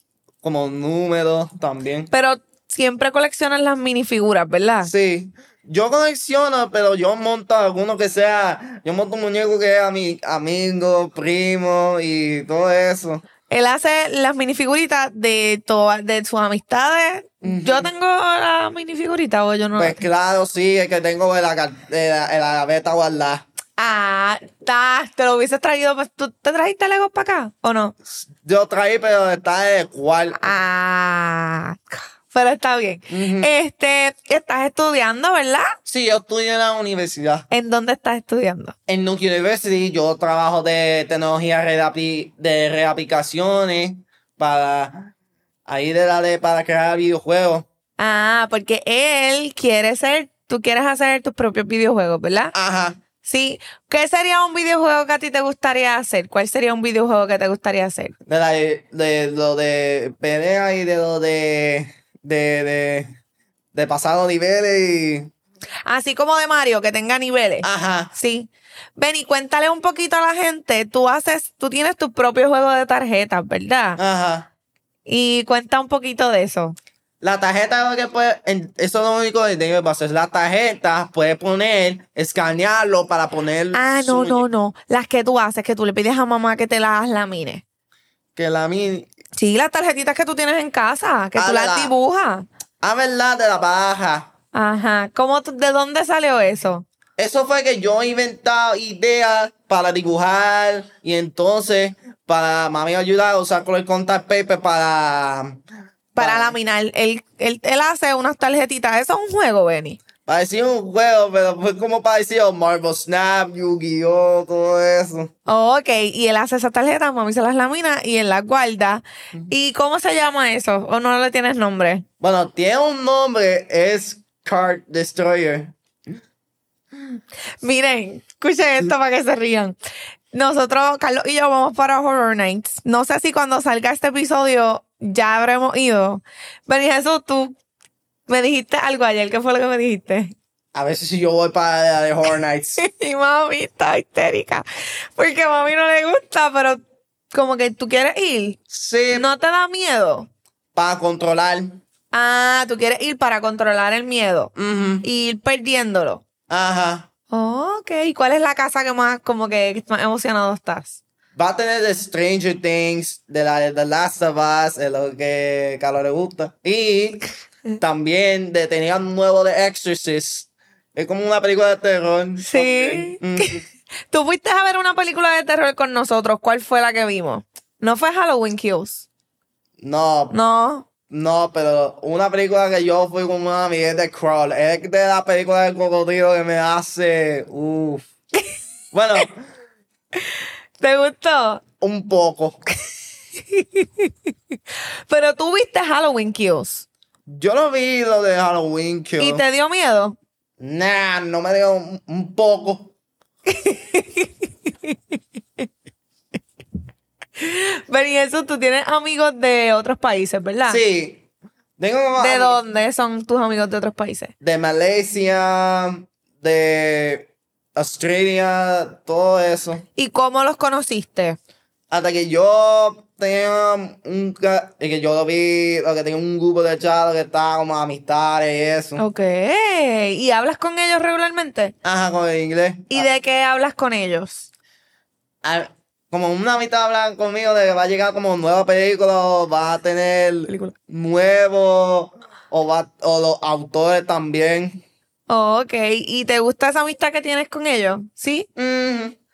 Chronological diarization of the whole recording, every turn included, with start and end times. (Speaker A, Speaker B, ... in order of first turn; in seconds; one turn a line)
Speaker A: 0.4-2.1
Speaker B: 2.1-4.9
Speaker A: 4.8-13.2
Speaker B: 13.5-20.0
Speaker A: 17.4-17.9
Speaker A: 19.8-23.4
Speaker B: 23.8-27.9
Speaker A: 28.1-30.5
Speaker B: 30.4-35.8
Speaker A: 33.1-33.5
Speaker A: 35.9-37.5
Speaker B: 37.5-38.7
Speaker A: 38.9-45.1
Speaker A: 45.7-47.6
Speaker B: 48.0-52.5
Speaker A: 52.5-53.0
Speaker B: 53.2-58.1
Speaker A: 58.3-63.1
Speaker A: 63.7-65.3
Speaker B: 65.9-74.0
Speaker A: 67.6-68.1
Speaker A: 74.0-74.5
Speaker B: 75.0-76.8
Speaker A: 77.2-84.4
Speaker B: 83.7-87.6
Speaker A: 88.3-89.1
Speaker B: 89.4-92.5
Speaker A: 91.3-91.9
Speaker A: 92.8-94.3
Speaker B: 94.5-96.8
Speaker A: 97.2-105.6
Speaker B: 106.2-110.0
Speaker A: 106.2-106.5
Speaker A: 110.2-115.3
Speaker B: 115.5-122.0
Speaker A: 122.2-125.7
Speaker B: 127.6-129.8
Speaker B: 130.3-137.5
Speaker B: 138.3-140.3
Speaker A: 140.7-142.8
Speaker B: 142.8-144.6
Speaker B: 145.2-146.8
Speaker B: 147.3-148.6
Speaker A: 148.7-149.3
Speaker B: 149.1-150.3
Speaker A: 150.7-151.8
Speaker B: 152.1-154.5
Speaker A: 154.6-155.1
Speaker B: 155.0-156.2
Speaker A: 156.5-157.1
Speaker B: 157.3-161.0
Speaker A: 161.3-167.3
Speaker A: 167.8-173.6
Speaker B: 172.4-179.1
Speaker A: 179.8-180.3
Speaker B: 180.3-180.8
Speaker A: 181.1-188.1
Speaker A: 188.9-189.3
Speaker B: 190.8-191.6
Speaker A: 191.8-192.6
Speaker B: 193.3-194.1
Speaker B: 195.1-196.8
Speaker A: 197.3-199.4
Speaker B: 199.2-200.2
Speaker A: 200.6-202.9
Speaker B: 203.5-205.2
Speaker B: 207.4-210.8
Speaker A: 210.7-211.2
Speaker A: 211.8-212.6
Speaker B: 212.2-214.3
Speaker A: 214.4-219.8
Speaker B: 219.9-221.4
Speaker A: 221.9-229.0
Speaker B: 229.0-231.7
Speaker A: 231.8-233.1
Speaker B: 232.9-234.5
Speaker A: 235.4-244.8
Speaker B: 245.3-248.5
Speaker A: 248.6-249.2